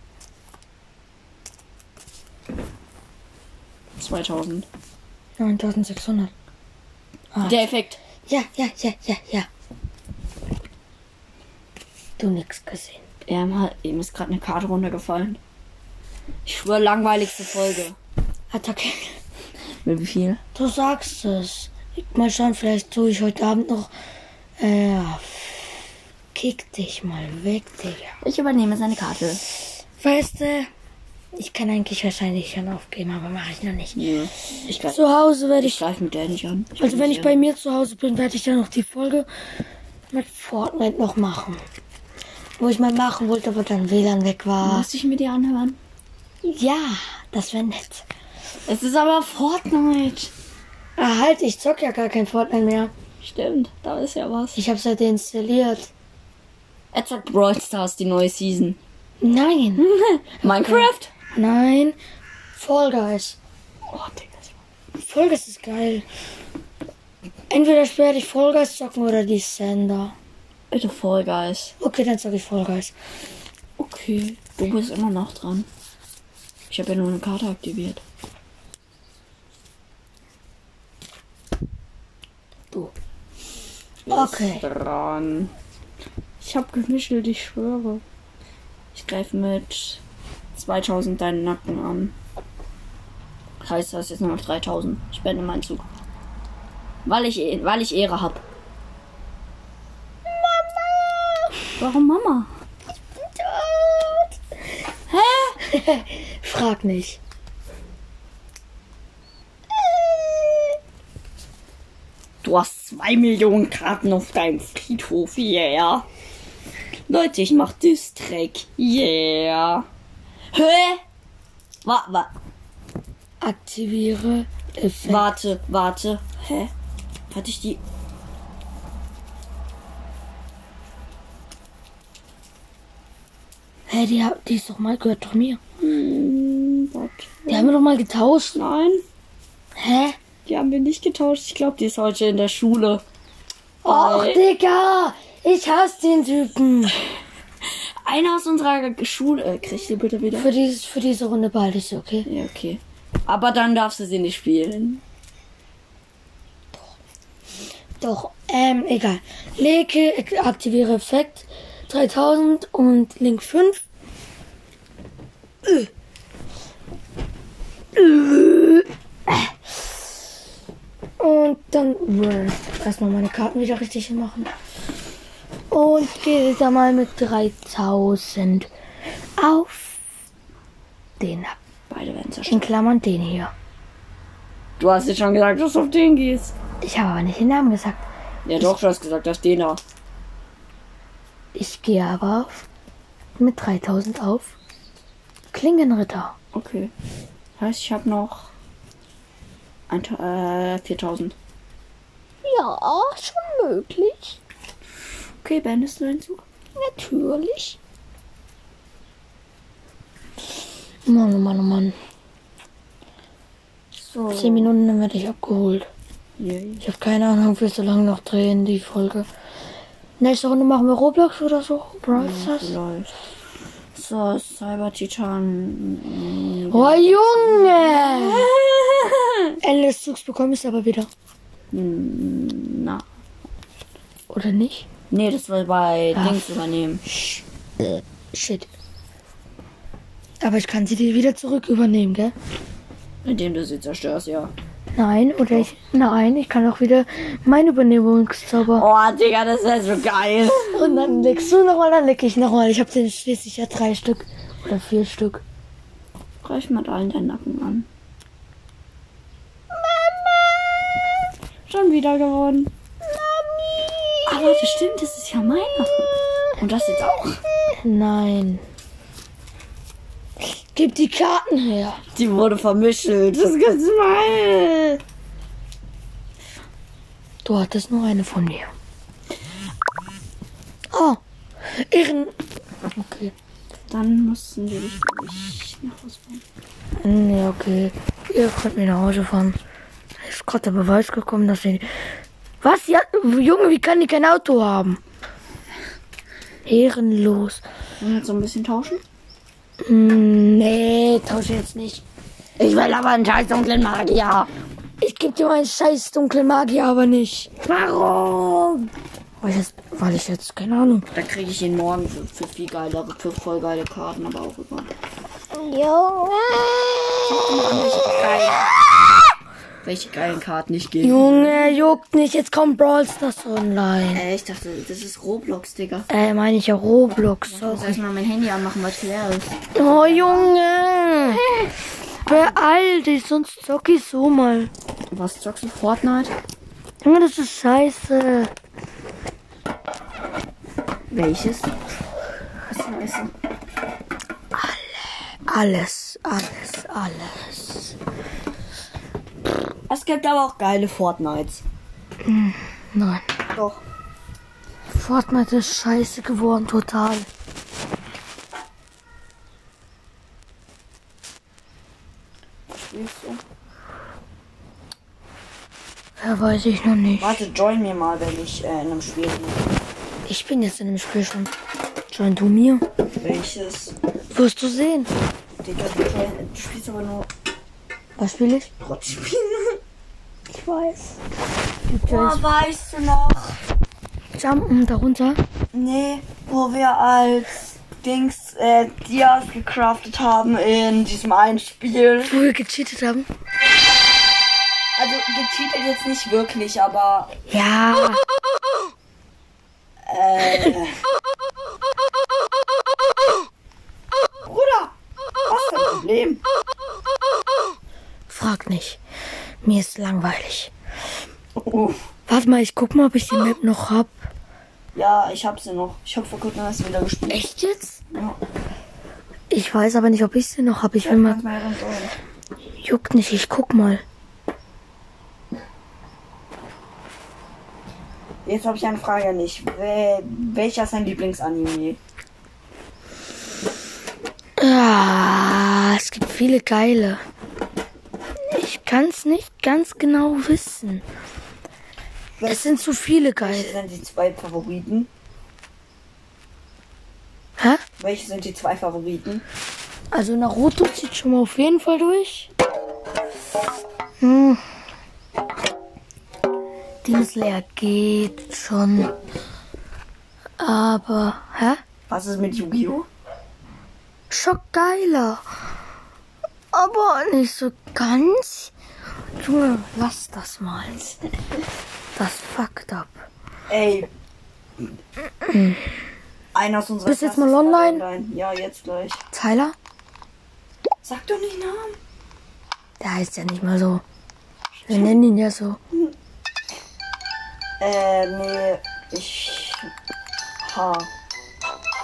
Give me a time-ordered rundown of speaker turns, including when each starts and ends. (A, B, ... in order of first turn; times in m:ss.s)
0:04.0-0:04.7 A
0:05.4-0:06.3 B
0:07.3-0:07.6 B
0:07.4-0:08.0 A
0:08.3-0:09.5 B
0:12.2-0:13.0 B
0:13.2-0:15.4 A
0:16.4-0:18.0 A
0:18.5-0:19.2 B
0:19.8-0:20.4 A
0:20.5-0:23.9 B
0:24.6-0:25.7 B
0:26.3-0:28.2 B
0:28.2-0:29.4 A
0:30.0-0:30.7 B
0:31.3-0:34.0 B
0:33.9-0:35.0 A
0:34.7-0:35.8 B
0:35.6-0:37.4 A
0:36.8-0:39.3 B
0:40.1-0:41.6 B
0:42.6-0:44.9 B
0:44.6-0:45.8 A
0:46.4-0:48.0 B
0:48.7-0:50.3 A
0:51.0-0:52.9 B
0:53.2-0:54.6 A
0:54.5-0:55.9 B
0:56.9-0:58.8 A
0:59.2-0:59.8 B
0:59.8-1:01.1 A
1:00.4-1:02.0 B
1:02.5-1:03.4 B
1:03.9-1:04.5 A
1:05.0-1:06.0 B
1:07.5-1:10.1 B
1:10.7-1:11.8 A
1:11.8-1:12.9 B
1:13.8-1:15.7 A
1:16.7-1:18.0 A
1:24.0-1:25.5 A
1:24.1-1:24.6 B
1:26.4-1:28.0 A
1:28.9-1:30.0 A
1:30.5-1:32.1 A
1:33.6-1:35.8 A
1:37.0-1:38.4 A
1:41.8-1:42.5 A
1:45.1-1:45.6 A
1:45.6-1:47.2 B
1:52.4-1:56.0 A
1:57.1-1:59.8 A
2:00.5-2:01.0 A
2:01.8-2:02.3 A
2:03.4-2:05.3 B
2:05.0-2:06.7 A
2:07.3-2:07.8 A
2:13.9-2:15.6 B
2:15.8-2:17.8 A
2:17.5-2:18.6 B
2:18.5-2:19.0 A
2:19.8-2:20.2 B
2:20.4-2:23.0 A
2:23.8-2:27.0 B
2:23.8-2:24.4 A
2:27.6-2:30.5 A
2:30.4-2:32.3 B
2:32.2-2:35.0 A
2:38.0-2:43.8 B
2:45.6-2:45.9 B
2:47.9-2:49.4 B
2:51.2-2:54.5 B
2:55.7-2:58.7 B
2:59.4-3:00.0 B
3:01.2-3:01.6 B
3:01.9-3:02.7 A
3:02.4-3:03.5 B
3:04.8-3:06.5 A
3:06.8-3:08.0 B
3:08.4-3:09.8 A
3:11.5-3:12.6 B
3:13.4-3:14.5 B
3:15.5-3:16.3 B
3:16.5-3:16.9 A
3:17.6-3:18.5 A
3:19.9-3:21.3 A
3:22.5-3:24.2 C
3:23.8-3:24.0 B
3:25.4-3:26.4 A
3:26.8-3:27.8 B
3:26.9-3:27.2 C
3:31.0-3:31.9 B
3:33.9-3:34.7 A
3:34.3-3:35.9 B
3:36.4-3:36.8 A
3:36.8-3:39.3 B
3:40.2-3:42.7 B
3:42.1-3:43.1 A
3:43.9-3:49.6 A
3:46.7-3:48.5 B
3:49.6-3:51.1 B
3:51.7-3:53.0 A
3:54.3-3:54.8 B
3:55.1-3:57.0 A
3:56.2-3:56.5 B
3:57.0-3:58.7 B
4:00.4-4:02.3 B
4:03.2-4:04.5 A
4:05.0-4:08.9 B
4:08.7-4:11.1 A
4:10.7-4:15.4 B
4:16.4-4:17.9 A
4:21.7-4:22.7 A
4:24.2-4:26.0 A
4:26.6-4:27.4 A
4:27.8-4:28.6 B
4:30.4-4:32.0 B
4:32.1-4:35.0 A
4:37.4-4:38.7 B
4:40.9-4:42.4 B
4:42.9-4:43.3 B
4:43.9-4:46.4 A
4:47.0-4:49.6 B
4:50.2-4:51.9 B
4:52.6-4:55.0 B
4:56.6-4:57.6 B
4:58.0-4:59.0 A
4:59.8-5:02.0 B
5:02.6-5:04.5 A
5:05.0-5:07.5 B
5:07.6-5:08.9 A
5:09.4-5:11.1 B
5:11.1-5:14.9 A
5:15.7-5:16.4 C
5:17.2-5:18.9 A
5:19.8-5:21.6 A
5:21.0-5:24.2 B
5:24.1-5:26.1 A
5:26.1-5:28.0 B
5:27.4-5:30.5 A
5:29.7-5:31.4 B
5:31.2-5:31.7 A
5:32.2-5:34.7 B
5:35.1-5:36.3 A
5:37.0-5:38.5 B
5:41.1-5:41.8 A
5:42.6-5:43.3 A
5:44.5-5:47.9 B
5:49.9-5:51.6 A
5:52.2-5:53.3 B
5:53.5-5:53.8 A
5:54.9-5:57.3 B
6:02.7-6:03.4 A
6:06.2-6:07.4 B
6:07.2-6:09.7 A
6:10.2-6:11.5 B
6:12.1-6:12.8 B
6:13.1-6:13.9 A
6:14.3-6:15.1 B
6:15.6-6:17.3 A
6:18.2-6:18.7 B
6:18.8-6:19.8 A
6:20.5-6:21.2 B
6:21.9-6:22.4 B
6:22.0-6:23.6 A
6:24.4-6:25.4 B
6:25.7-6:32.4 A
6:32.2-6:33.3 B
6:35.0-6:37.3 A
6:37.5-6:38.2 B
6:40.0-6:41.0 A
6:44.4-6:44.9 A
6:45.5-6:46.4 A
6:48.3-6:49.0 B
6:49.6-6:50.7 B
6:51.6-6:52.0 A
6:52.3-6:54.3 B
6:54.9-6:57.4 A
6:57.3-6:58.0 B
6:58.1-6:58.4 A
6:59.5-7:01.4 B
7:01.0-7:02.2 A
7:02.8-7:04.0 B
7:08.4-7:12.0 A
7:14.6-7:17.2 B
7:18.4-7:21.0 B
7:22.4-7:25.1 A
7:22.4-7:23.8 B
7:28.0-7:29.4 A
7:30.1-7:32.5 B
7:34.2-7:34.6 B
7:37.0-7:39.1 B
7:40.6-7:41.8 B
7:42.1-7:43.1 A
7:44.3-7:45.4 B
7:46.7-7:48.7 B
7:49.4-7:51.0 B
7:52.2-7:53.2 B
7:53.7-7:54.1 A
7:55.4-7:55.9 B
7:56.5-7:59.2 A
7:57.0-7:58.0 B
7:59.3-7:59.7 B
8:01.0-8:02.0 A
8:03.0-8:04.0 B
8:04.7-8:05.2 A
8:04.9-8:05.8 B
8:07.8-8:09.9 A
8:10.6-8:11.1 A